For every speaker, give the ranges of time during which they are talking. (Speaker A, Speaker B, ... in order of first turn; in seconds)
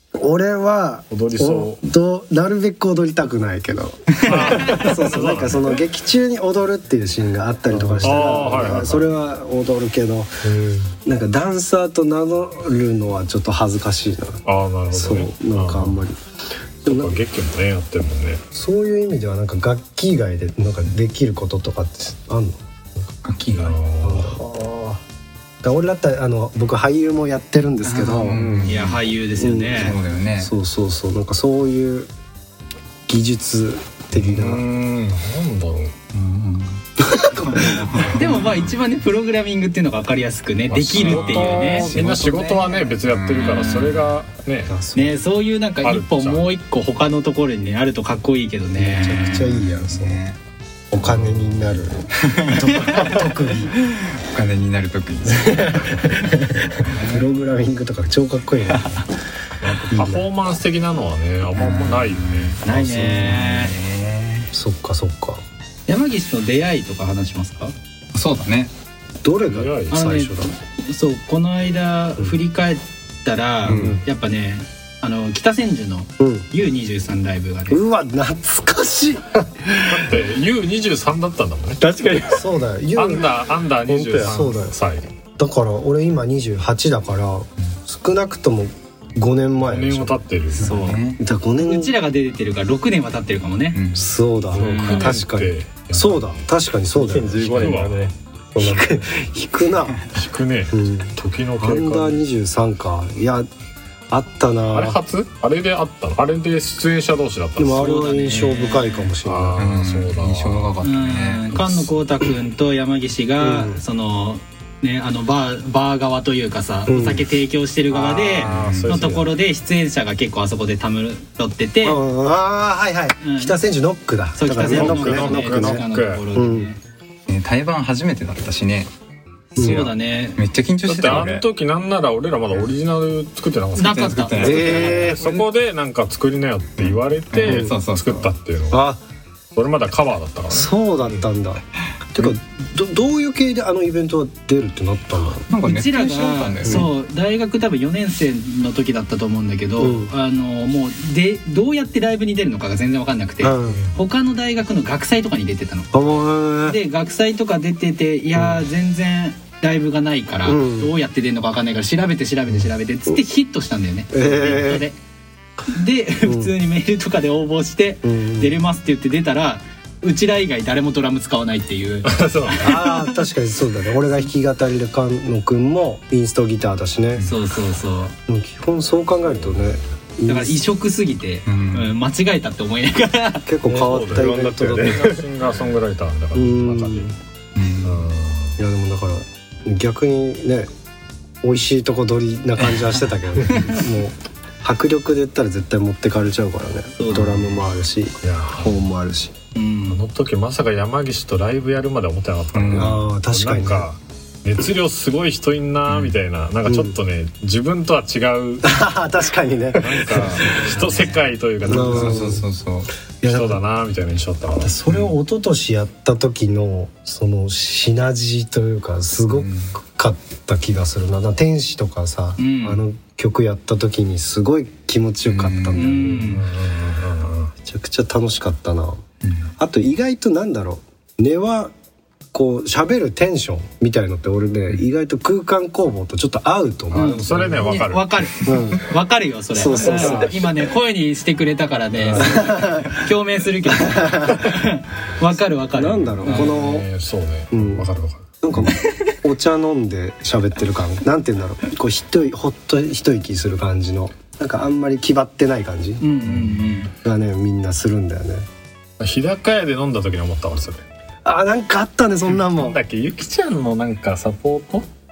Speaker A: 0.1-16.2, 16.8-17.2, 18.5-22.6, 24.0-25.0, 25.6-28.5, 29.4-32.1, 33.1-34.6, 37.0-38.1, 44.7-45.2, 48.8-50.2, 50.9-53.7, 55.3-59.0, 59.7-60.2, 62.7-63.4, 64.5-65.4, 69.2-70.5, 76.2-76.5, 77.7-79.6, 82.3-84.8, 85.4-90.2, 91.1-92.0, 93.9-97.8, 98.5-100.0, 100.7-103.5, 104.1-105.0, 107.6-109.7, 113.4-113.8, 116.9-117.3, 121.8-126.7, 129.6-129.9, 134.4-135.4, 137.4-137.7, 138.7-139.0, 140.5-141.6, 142.1-145.4, 146.6-146.9, 149.8-150.1, 153.4-153.8, 155.9-156.8, 160.4-160.9, 164.1-164.9, 166.2-166.5, 168.0-168.6, 172.6-177.2, 178.3-180.6, 183.4-185.2, 186.3-187.1, 188.6-190.7, 191.4-199.3, 202.7-203.9, 206.6-206.9, 208.6-210.5, 211.6-212.4, 213.2-213.6, 214.5-226.4, 227.6-229.0, 229.6-231.7, 232.3-237.6, 238.4-238.9, 239.5-240.3, 242.2-242.9, 243.8-244.6, 245.7-246.9, 247.5-247.9, 248.4-256.0, 257.0-258.5, 261.2-262.8
Speaker B: 1.1-1.8, 4.2-5.8, 7.7-9.1, 14.4-16.0, 16.9-18.4, 23.5-24.4, 28.3-28.8, 34.1-35.9, 40.7-44.7, 45.8-46.5, 51.0-51.9, 59.6-63.1, 69.5-70.0, 73.7-74.0, 79.9-81.8, 83.0-85.1, 89.6-90.7, 94.5-96.4, 97.4-98.1, 100.1-102.2, 104.7-108.0, 109.2-110.8, 117.9-119.3, 124.6-126.2, 130.9-138.8, 139.5-140.7, 172.0-172.8, 183.7-187.1, 187.8-188.6, 198.2-198.8, 199.9-208.8, 209.8-212.3, 213.2-214.8, 226.3-227.5, 237.0-238.3, 239.7-240.5, 241.9-242.7, 246.1-248.7, 256.2-256.7, 259.0-260.8, 262.3-264.9
Speaker C: 23.2-23.8, 27.8-29.0, 29.8-30.5, 36.1-36.8, 37.3-38.6, 41.0-44.1, 49.2-50.4, 52.2-53.2, 53.9-56.9, 58.7-59.0, 61.5-64.5, 68.1-68.7, 73.7-74.0, 90.6-91.2, 93.7-94.1, 109.6-111.6, 118.4-119.1, 127.3-128.9, 129.6-131.4, 133.8-135.2, 136.8-138.3, 145.3-146.9, 177.2-177.4, 181.4-181.9, 187.5-188.1, 197.1-197.4, 202.5-203.0, 205.9-206.2, 210.4-212.9, 219.3-219.7, 225.2-225.9
Speaker D: 28.6-29.9, 38.1-42.9, 44.9-49.5, 62.6-63.7, 65.9-67.7, 69.9-77.8, 90.6-91.0, 91.6-93.8, 94.6-95.2, 107.7-109.0, 110.8-122.0, 123.2-123.5, 124.3-126.8, 129.5-130.4, 133.8-134.7, 145.6-156.1, 156.6-165.0, 165.7-173.0, 177.2-178.1, 180.2-183.5, 197.0-197.3, 199.5-200.0, 222.4-222.8, 225.7-226.4, 236.9-246.5, 256.0-256.9
Speaker E: 81.8-82.5, 83.9-84.4, 97.0-98.1, 184.1-185.1